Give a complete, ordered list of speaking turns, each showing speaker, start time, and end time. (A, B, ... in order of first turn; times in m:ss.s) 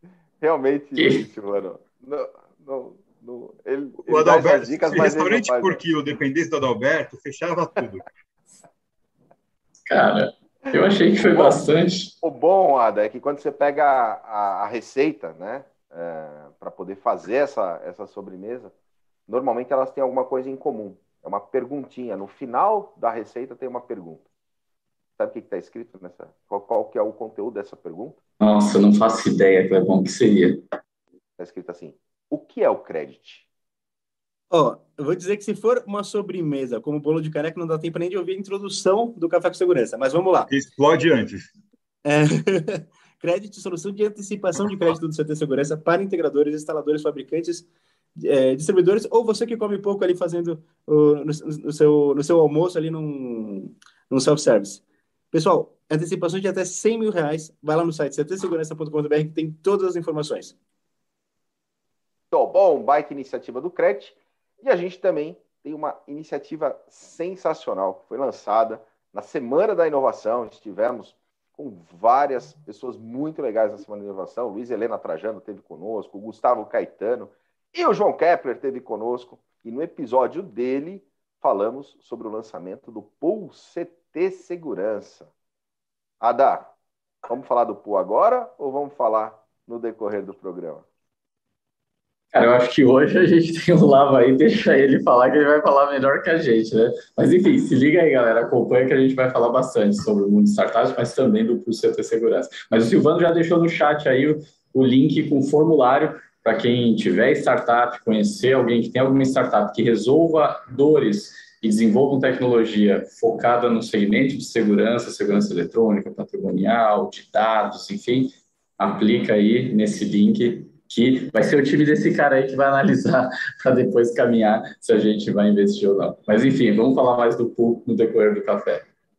0:00.4-0:05.8 A
0:01.0-0:01.2 B
0:04.0-0:08.0 C
0:09.9-0:12.1 B
0:11.1-0:11.6 A
0:12.2-0:18.7 A
0:19.3-0:24.2 A
0:25.2-0:28.2 A
0:28.4-0:30.6 B
0:31.4-0:33.5 A
0:34.5-0:40.5 D
0:40.5-0:41.5 C
0:42.0-1:00.6 D
1:02.3-1:25.3 A
1:26.2-1:26.7 A
1:27.3-1:30.8 A
1:32.3-2:08.8 B